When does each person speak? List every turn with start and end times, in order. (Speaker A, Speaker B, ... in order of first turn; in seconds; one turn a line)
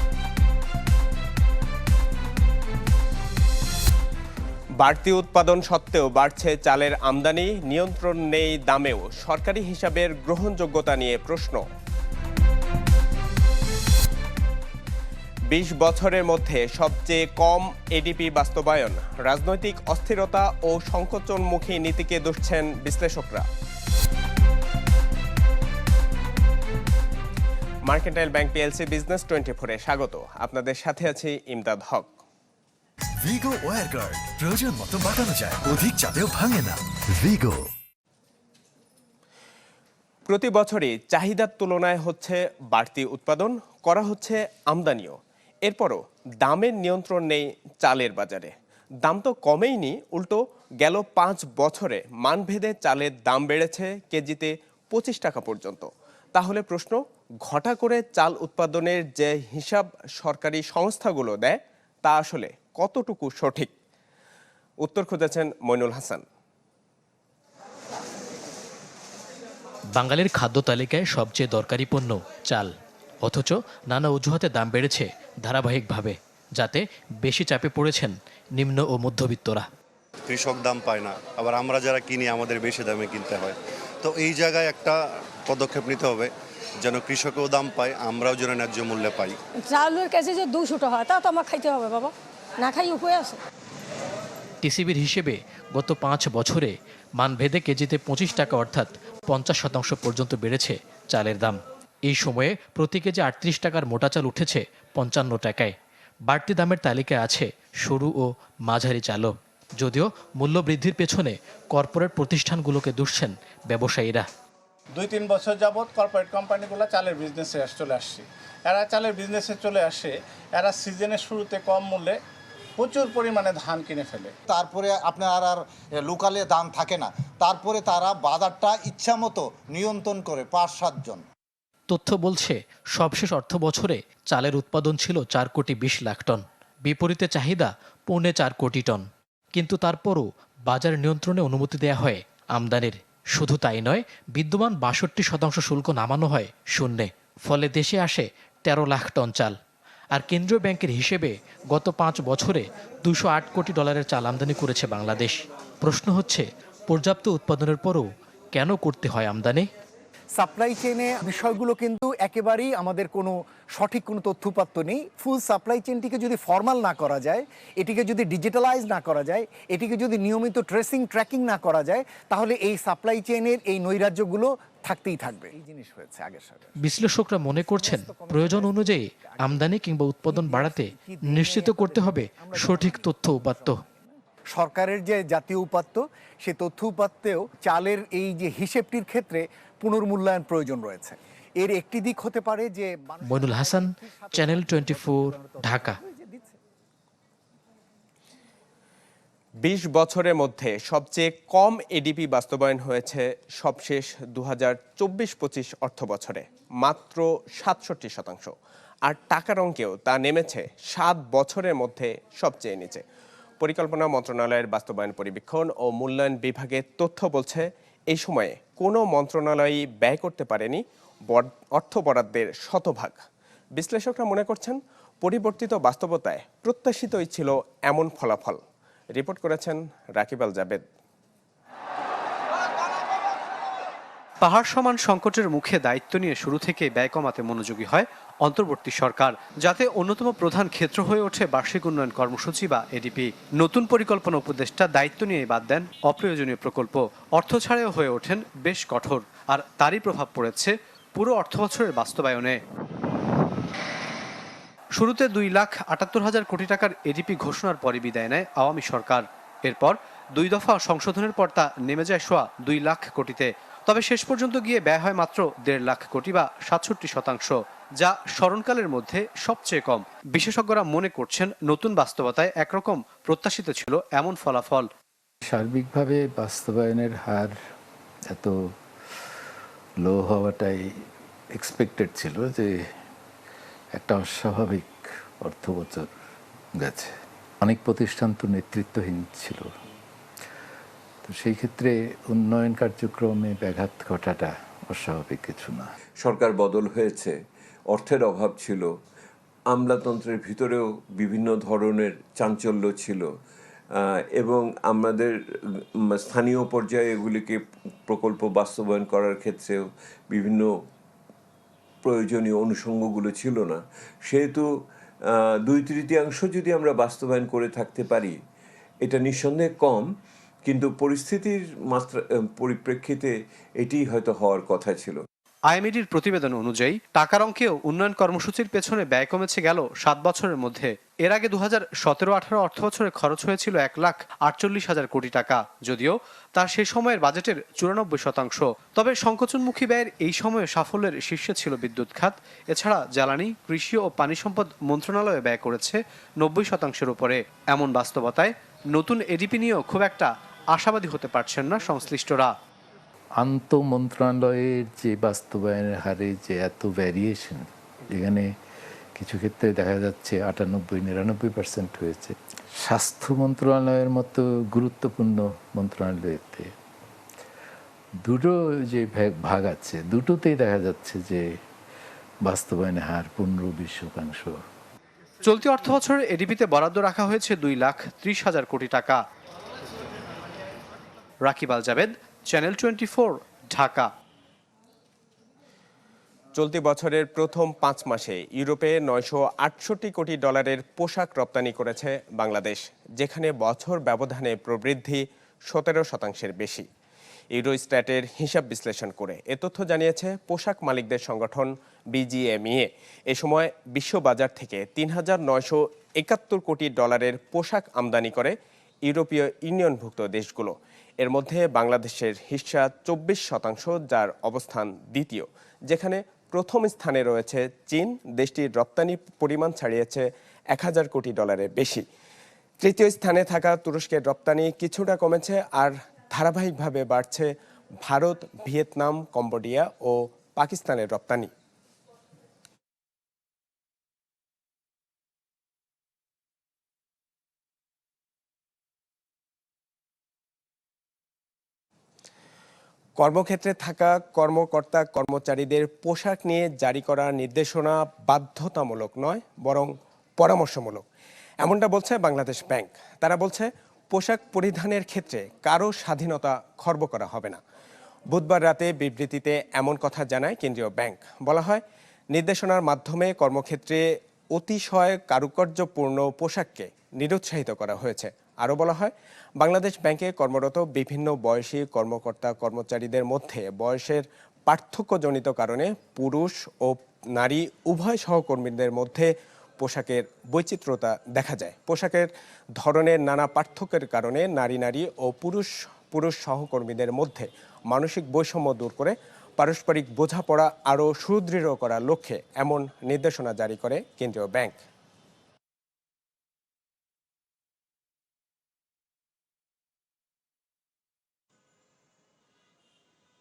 Speaker A: 4.8-11.6
Speaker A: 15.5-23.5
Speaker A: 27.9-32.1
Speaker B: 33.2-37.7
Speaker A: 40.3-48.5
Speaker A: 49.0-63.7
Speaker A: 64.8-66.2
Speaker C: 70.0-72.7
Speaker C: 73.2-79.7
Speaker D: 80.3-89.4
Speaker E: 89.7-93.4
Speaker C: 94.6-101.6
Speaker C: 102.1-105.7
Speaker C: 106.3-114.2
Speaker F: 115.0-122.1
Speaker F: 122.8-124.3
Speaker G: 124.6-125.5
Speaker G: 126.2-127.0
Speaker G: 127.5-131.2
Speaker C: 131.9-149.6
Speaker C: 150.1-159.7
Speaker H: 160.4-176.6
Speaker C: 176.8-183.8
Speaker H: 177.6-179.0
Speaker H: 180.3-183.7
Speaker H: 184.5-196.5
Speaker C: 193.3-196.0
Speaker A: 199.6-208.5
Speaker A: 209.1-213.0
Speaker A: 213.6-223.2
Speaker A: 223.8-228.6
Speaker A: 229.2-230.8
Speaker I: 234.4-252.6
Speaker I: 254.9-274.9
Speaker J: 275.5-277.6
Speaker J: 278.3-278.7
Speaker J: 280.0-280.9
Speaker J: 281.6-282.7
Speaker J: 283.9-286.1
Speaker J: 286.8-287.1
Speaker J: 287.6-289.7
Speaker J: 291.2-295.9
Speaker K: 296.2-297.4
Speaker K: 297.9-298.9
Speaker K: 299.7-303.3
Speaker K: 304.0-305.4
Speaker K: 306.1-310.7
Speaker K: 312.0-314.7
Speaker K: 315.6-318.4
Speaker K: 319.0-320.1
Speaker K: 320.6-325.2
Speaker I: 325.7-352.5
Speaker J: 353.4-358.5
Speaker J: 359.2-366.7
Speaker J: 368.3-371.4
Speaker J: 372.4-374.6
Speaker I: 375.4-379.2
Speaker I: 381.5-384.1
Speaker A: 386.6-396.9
Speaker A: 397.5-422.0
Speaker A: 422.8-427.5
Speaker A: 428.0-431.5
Speaker A: 443.2-451.1
Speaker A: 451.6-457.6
Speaker A: 458.3-464.0
Speaker A: 464.5-494.8